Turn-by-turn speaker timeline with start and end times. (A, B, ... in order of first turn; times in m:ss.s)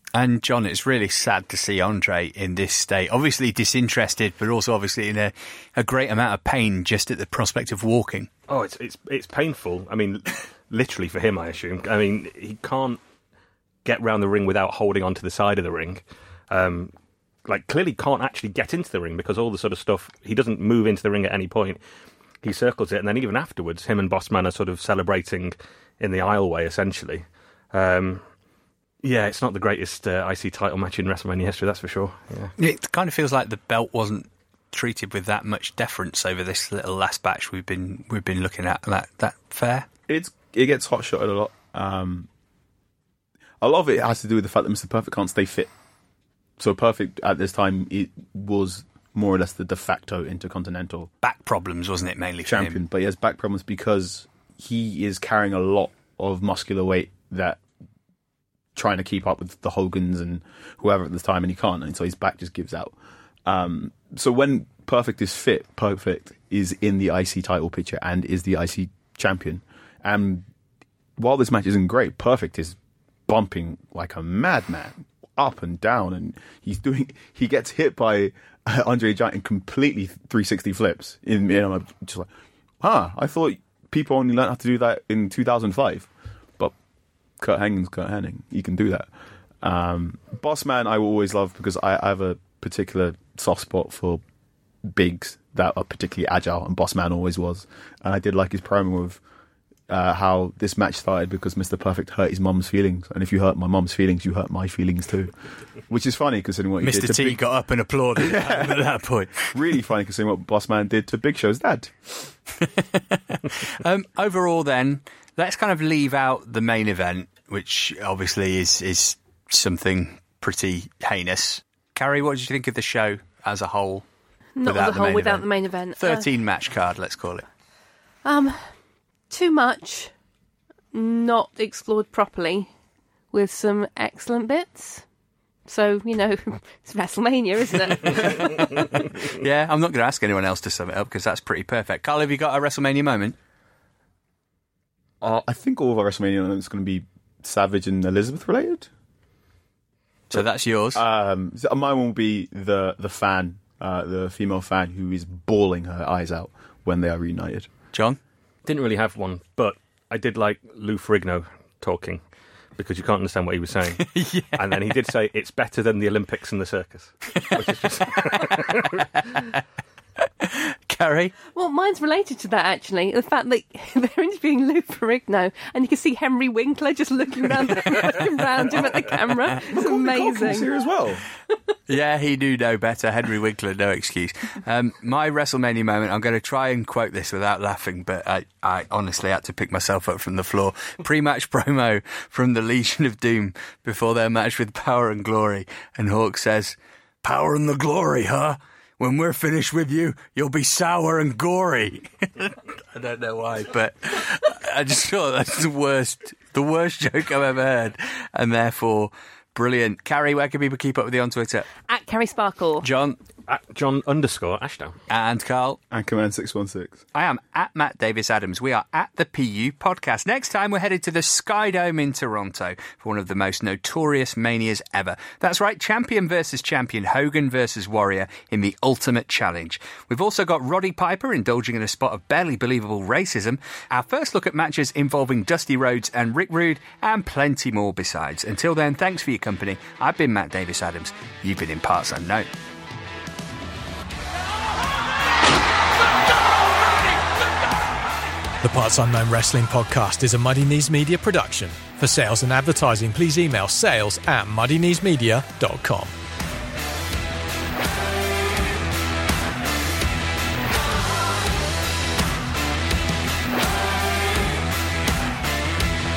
0:00.1-0:08.3 A
0:08.5-0:13.0 B
0:13.8-0:16.9 B
0:17.5-0:21.8 B
0:22.4-0:28.2 B
0:29.0-0:32.5 B
0:32.6-0:39.9 A
0:40.1-0:42.3 C
0:43.6-0:45.7 C
0:46.6-0:51.1 C
0:51.2-0:52.8 A
0:52.5-0:57.6 C
0:58.8-1:03.0 C
1:03.5-1:10.5 C
1:11.2-1:22.3 C
1:22.8-1:26.8 C
1:27.4-1:29.1 C
1:29.6-1:34.2 C
1:34.8-1:39.2 C
1:39.9-1:45.3 C
1:45.9-1:47.4 C
1:46.8-1:49.5 A
1:48.2-1:48.8 C
1:49.4-1:51.9 C
1:52.6-2:04.1 A
2:04.6-2:06.3 D
2:04.6-2:07.4 A
2:08.2-2:08.6 D
2:09.3-2:10.1 D
2:10.9-2:12.7 D
2:13.3-2:15.0 D
2:15.7-2:18.8 D
2:18.4-2:23.4 A
2:25.2-2:28.9 C
2:30.3-2:31.0 A
2:30.3-2:37.7 C
2:37.9-2:38.2 A
2:38.6-2:42.2 B
2:42.8-2:49.1 B
2:44.0-2:44.8 A
2:48.3-2:49.5 A
2:50.4-2:51.3 A
2:51.5-3:00.7 D
2:59.7-3:01.2 C
3:01.9-3:31.7 A
3:31.9-3:32.8 D
3:32.8-3:33.2 A
3:33.5-3:35.0 B
3:35.1-3:35.8 A
3:35.9-3:37.0 C
3:37.1-4:02.5 A
4:08.6-4:16.1 E